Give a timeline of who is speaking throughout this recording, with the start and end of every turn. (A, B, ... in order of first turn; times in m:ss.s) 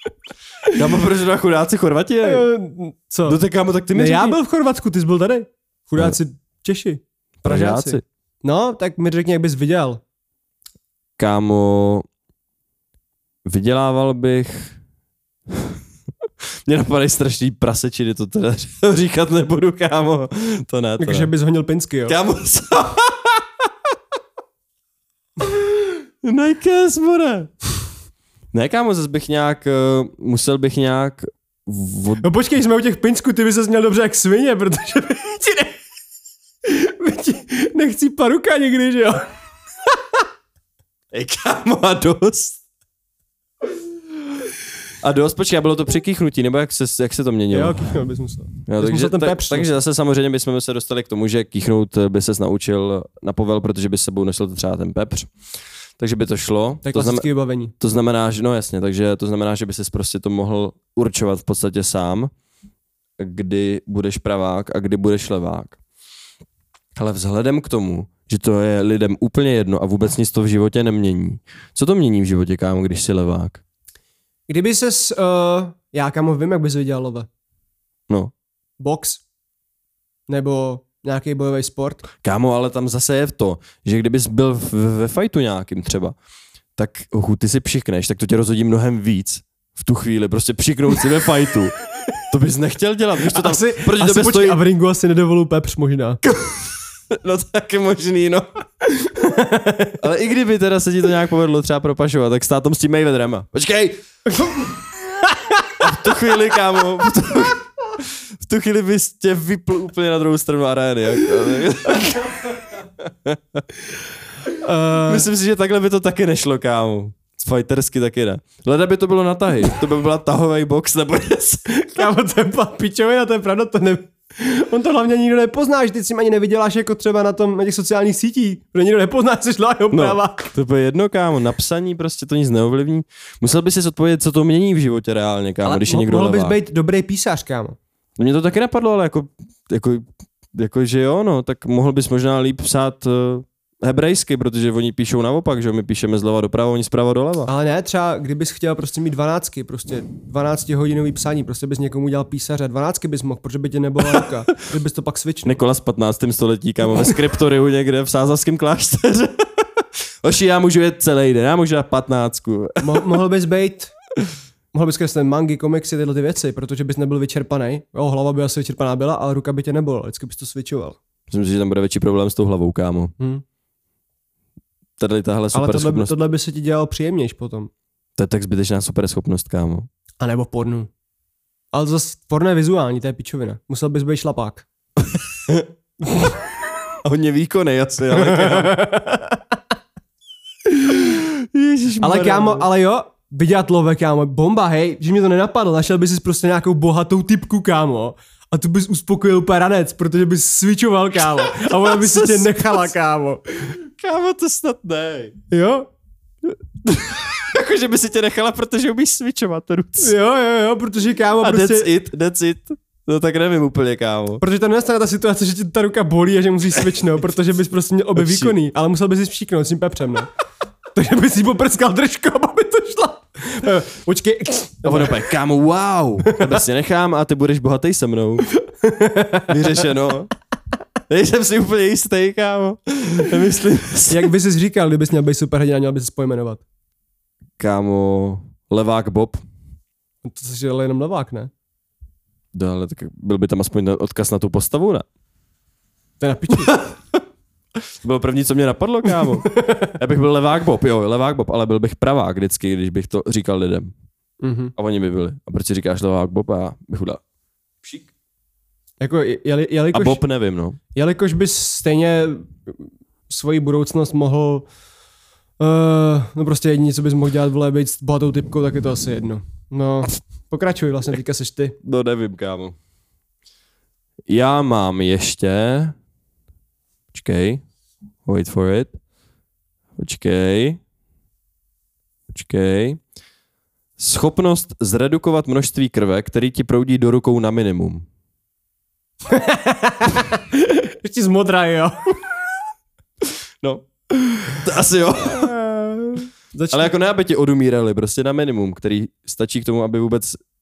0:00.7-0:02.5 A
0:02.2-0:03.4 B
0:03.3-0:04.4 A
0:03.9-0:10.0 B
0:07.4-0:08.0 A
0:11.2-0:12.1 A
0:13.4-0:14.8 A
0:15.5-0:15.8 A
0:16.7-0:21.3 A
0:21.0-0:22.2 B
0:22.1-0:23.7 A
0:26.2-0:27.5 A
0:28.5-0:32.3 A
0:32.2-0:35.8 B
0:36.6-0:39.3 B
0:41.1-0:42.6 A
0:45.0-0:47.9 A
0:47.5-0:49.7 B
0:48.7-0:55.3 A
0:56.0-0:57.2 A
0:56.8-0:57.7 B
0:57.8-1:02.3 A
1:03.2-1:05.8 A
1:07.0-1:13.6 A
1:14.5-1:17.3 B
1:18.8-1:19.2 B
1:20.3-1:22.1 B
1:22.2-1:26.2 A
1:26.8-1:34.6 A
1:33.2-1:36.2 B
1:36.2-1:38.5 A
1:38.9-1:40.0 B
1:40.0-1:44.0 A
1:44.3-1:45.7 B
1:45.8-1:53.6 A
1:54.5-1:55.3 B
1:55.1-2:02.1 A
2:01.7-2:10.5 B
2:09.9-2:16.6 A
2:15.6-2:17.8 B
2:18.2-2:27.5 A
2:27.5-2:35.6 B
2:35.4-2:43.0 A
2:42.8-2:43.9 B
2:44.7-2:51.0 B
2:51.3-2:53.1 A
2:53.2-2:53.4 B
2:55.0-2:56.1 A
2:55.5-2:57.7 B
2:58.2-2:59.9 A
3:00.2-3:00.9 B
3:01.7-3:04.7 B
3:05.0-3:05.7 A
3:07.0-3:08.8 A
3:08.1-3:09.4 B
3:10.9-3:12.7 A
3:12.0-3:23.7 B
3:21.4-3:22.9 A
3:23.8-3:25.4 A
3:25.5-3:25.9 B
3:26.8-3:30.1 A
3:30.0-3:31.9 B
3:31.4-3:34.4 A
3:34.4-3:40.3 B
3:38.2-3:38.5 A
3:41.0-3:45.2 B
3:44.8-3:48.5 A
3:46.2-3:46.5 B
3:48.6-3:49.8 B
3:49.5-3:50.3 A
3:51.1-3:54.3 A
3:54.1-3:56.6 B
3:57.6-3:59.4 A
4:00.2-4:01.5 B
4:02.5-4:05.0 A
4:06.2-4:06.8 B
4:06.6-4:07.2 A
4:07.8-4:13.9 A
4:09.4-4:10.0 B
4:14.4-4:14.7 B
4:14.8-4:17.2 A
4:17.8-4:18.1 A
4:19.0-4:20.2 B
4:19.9-4:20.8 A
4:20.9-4:24.7 B
4:25.6-4:31.8 B
4:31.8-4:32.8 A
4:34.3-4:36.0 A
4:37.1-4:37.6 A
4:38.3-4:38.9 A
4:40.0-4:40.8 A
4:42.3-4:43.0 A
4:44.0-4:48.1 A
4:49.3-4:52.2 B
4:53.6-4:55.5 A
4:55.2-4:56.9 B
4:56.7-5:00.4 A